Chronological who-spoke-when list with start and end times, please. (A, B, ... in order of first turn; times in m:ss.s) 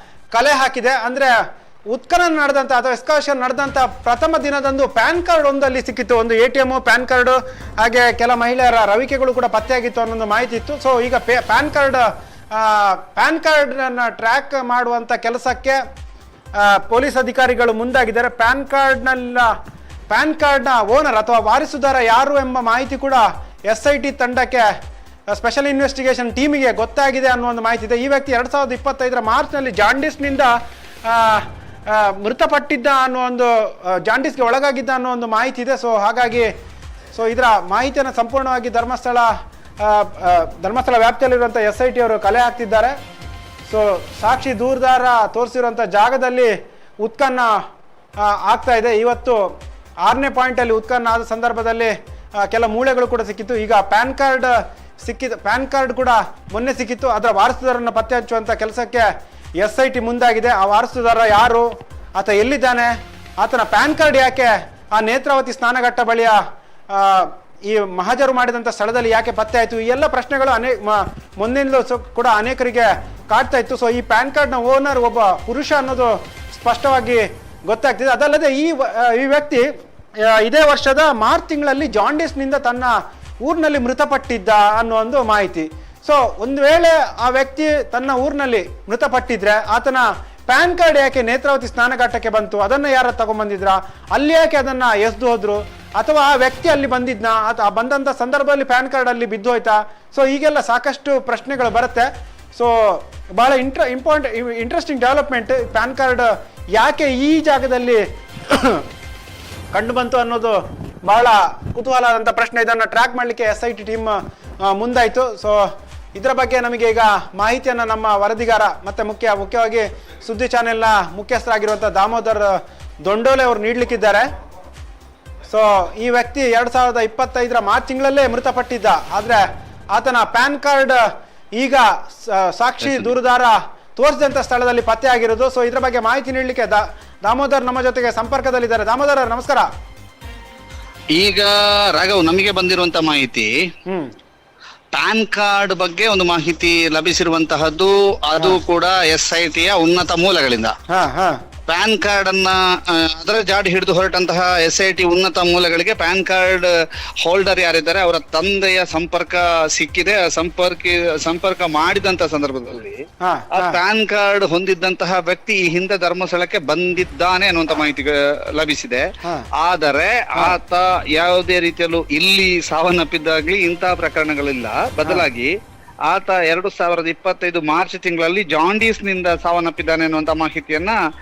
0:00.3-0:01.3 A
0:01.9-0:15.8 A
0:16.6-0:19.5 A
0:20.1-0:24.7 A
0:25.3-0:30.5 A
0:31.0-0:36.5 A
0:37.1-0:39.3 A
0:39.8-0:42.9 A
0:43.6-0:47.5 A
0:48.2-0:49.5 A
0:50.0-0:59.1 A
0:59.6-1:01.6 A
1:02.2-1:06.4 A
1:06.9-1:19.6 A
1:20.2-1:48.8 A
1:49.7-2:04.2 A
2:05.5-2:11.0 A
2:11.6-2:19.7 A
2:12.8-2:13.1 B
2:21.1-2:23.5 B
2:24.9-2:30.7 B
2:30.9-2:31.4 A
2:31.7-2:36.7 B
2:37.2-2:43.0 B
2:43.2-2:43.8 A
2:43.5-2:49.1 B
2:49.2-2:49.5 A
2:49.6-2:55.5 B
2:56.1-3:01.0 B